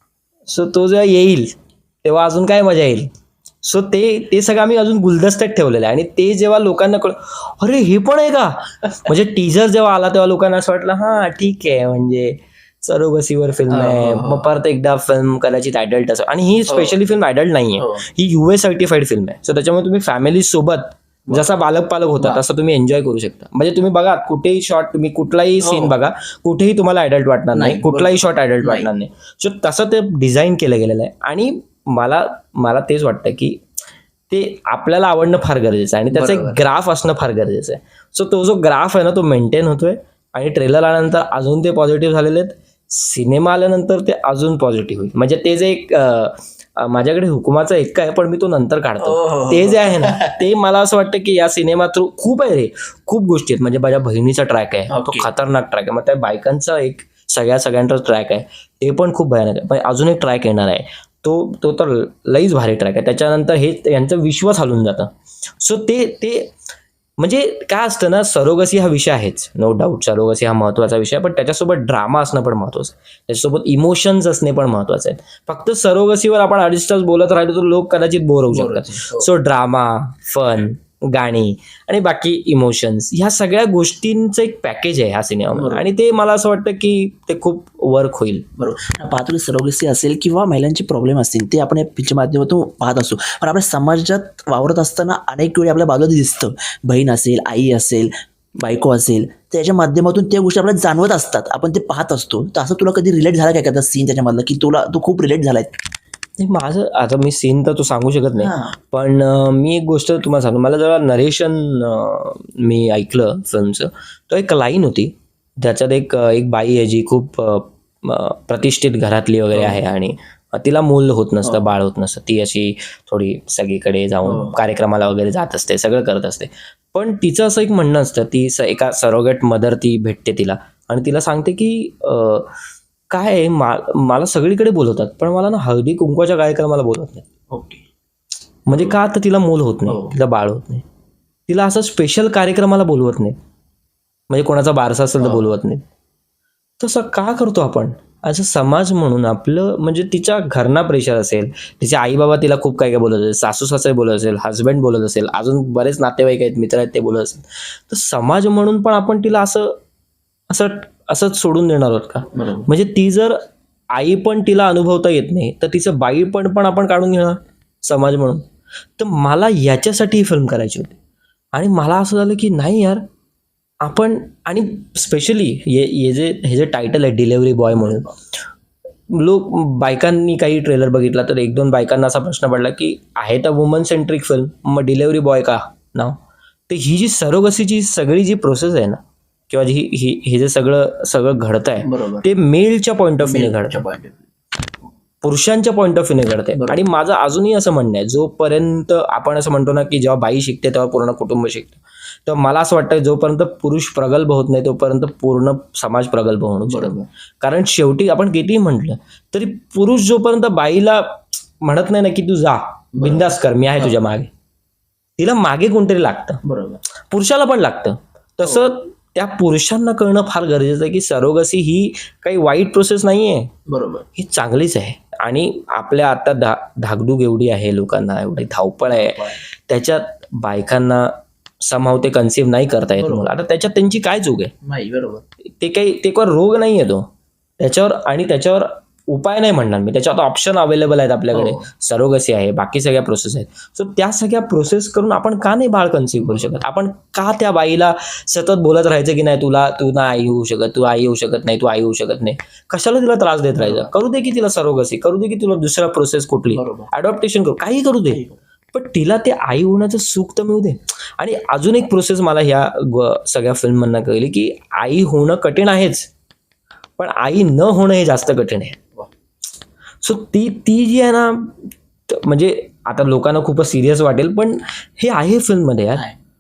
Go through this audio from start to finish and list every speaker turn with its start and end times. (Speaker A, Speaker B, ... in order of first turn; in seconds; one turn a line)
Speaker A: 0.5-3.1
Speaker A: 3.6-33.6
Speaker B: 13.7-14.5
Speaker B: 16.7-17.0
Speaker B: 17.8-18.0
Speaker B: 25.6-26.0
Speaker B: 27.5-28.9
Speaker A: 34.3-66.5
Speaker B: 36.1-36.6
Speaker B: 49.0-50.4
Speaker B: 54.9-55.3
Speaker A: 67.2-88.5
Speaker B: 78.5-79.3
Speaker B: 85.5-85.9
Speaker B: 88.6-105.8
Speaker A: 106.4-132.5
Speaker B: 108.4-108.7
Speaker B: 119.5-119.8
Speaker B: 124.2-124.6
Speaker A: 133.1-137.3
Speaker B: 137.5-137.8
Speaker A: 138.7-140.8
Speaker B: 138.7-139.0
Speaker B: 139.9-140.2
Speaker A: 141.5-143.4
Speaker A: 144.3-145.8
Speaker B: 145.2-145.5
Speaker A: 146.8-159.8
Speaker A: 160.5-163.4
Speaker B: 162.3-162.7
Speaker A: 163.9-168.4
Speaker A: 169.0-171.0
Speaker A: 171.5-173.0
Speaker A: 173.8-178.1
Speaker B: 177.7-178.1
Speaker A: 179.1-193.8
Speaker B: 191.8-192.3
Speaker B: 193.2-194.3
Speaker A: 195.2-214.3
Speaker B: 196.6-196.8
Speaker B: 206.7-207.1
Speaker B: 212.9-214.0
Speaker A: 215.2-216.4
Speaker B: 216.4-216.8
Speaker A: 217.0-223.5
Speaker B: 223.7-224.1
Speaker A: 224.2-234.5
Speaker B: 228.9-229.4
Speaker B: 233.0-233.3
Speaker B: 234.6-235.2
Speaker A: 235.6-237.1
Speaker A: 237.6-266.1
Speaker B: 241.3-241.7
Speaker B: 253.6-253.9
Speaker B: 256.5-256.9
Speaker A: 267.0-268.8
Speaker A: 270.0-276.1